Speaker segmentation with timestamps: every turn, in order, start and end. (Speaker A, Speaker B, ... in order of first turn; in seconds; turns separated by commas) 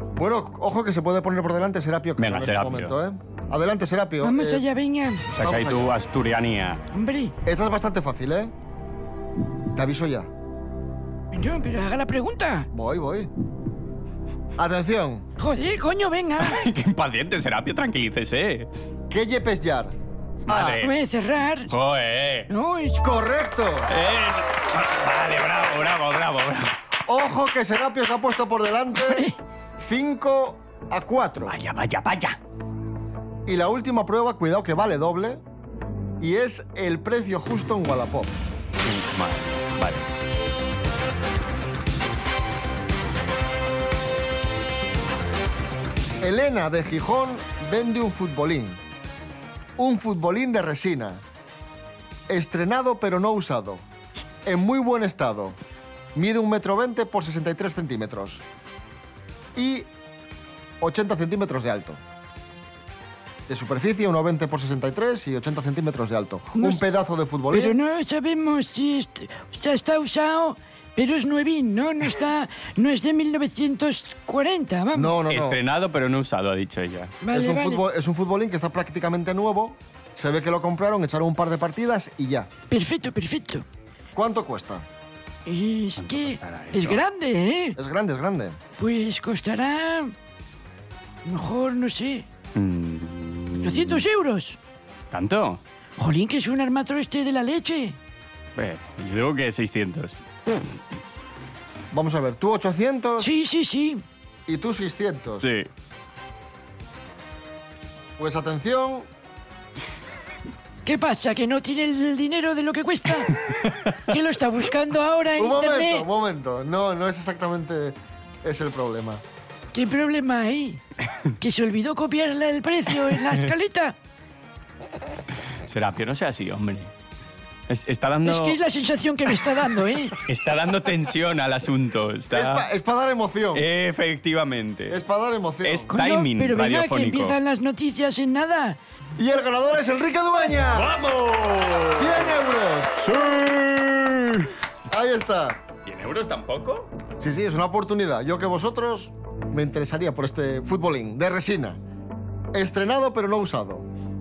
Speaker A: 0.2-4.6, Speaker B: 2.2-2.9, Speaker C: 4.2-5.3, Speaker B: 5.3-6.8, Speaker A: 5.4-5.9, Speaker C: 6.9-7.3, Speaker A: 7.5-8.5, Speaker A: 9.7-10.3, Speaker C: 11.3-12.7, Speaker A: 12.7-13.3, Speaker A: 14.6-15.3, Speaker C: 15.4-16.6, Speaker B: 16.4-18.7, Speaker A: 19.1-19.9, Speaker B: 20.5-20.9, Speaker A: 20.5-20.8, Speaker C: 20.8-21.7, Speaker B: 21.7-22.5, Speaker C: 22.5-23.1, Speaker A: 23.0-23.9, Speaker B: 23.9-26.7, Speaker A: 27.1-31.6, Speaker C: 29.0-29.4, Speaker B: 31.4-32.4, Speaker A: 33.5-35.4, Speaker A: 36.2-38.4, Speaker B: 38.8-40.1, Speaker A: 46.2-48.8, Speaker A: 49.8-51.2, Speaker A: 52.3-53.8, Speaker A: 54.5-55.6, Speaker A: 56.1-58.4, Speaker A: 59.6-59.9, Speaker A: 60.8-62.0, Speaker A: 63.5-67.8, Speaker C: 66.5-66.8, Speaker C: 67.5-75.1, Speaker A: 74.9-75.6, Speaker B: 75.3-77.2, Speaker C: 77.2-77.8, Speaker A: 77.3-82.5, Speaker C: 82.7-83.7, Speaker A: 84.2-84.9, Speaker C: 85.5-87.8, Speaker B: 86.0-87.0, Speaker A: 87.8-88.6, Speaker C: 88.8-90.1, Speaker C: 91.2-92.3, Speaker B: 92.5-94.1, Speaker C: 93.6-94.6, Speaker B: 95.1-95.6, Speaker C: 96.0-98.0, Speaker B: 98.6-100.2, Speaker A: 101.9-103.3, Speaker C: 103.2-104.0, Speaker A: 104.5-105.5, Speaker B: 105.4-105.7, Speaker A: 108.2-109.1, Speaker C: 110.8-113.3, Speaker C: 114.1-116.1, Speaker A: 115.4-119.2, Speaker C: 119.7-120.8, Speaker C: 121.4-124.0, Speaker B: 125.6-126.9, Speaker B: 127.7-128.6, Speaker C: 128.2-130.2, Speaker B: 130.2-132.7, Speaker A: 132.3-133.7, Speaker B: 133.5-135.0, Speaker A: 134.9-135.9, Speaker B: 135.6-137.4, Speaker C: 135.9-138.8, Speaker A: 139.2-141.1, Speaker B: 140.8-142.3, Speaker A: 141.9-145.6, Speaker B: 145.9-146.9, Speaker A: 147.2-151.8, Speaker A: 152.5-153.9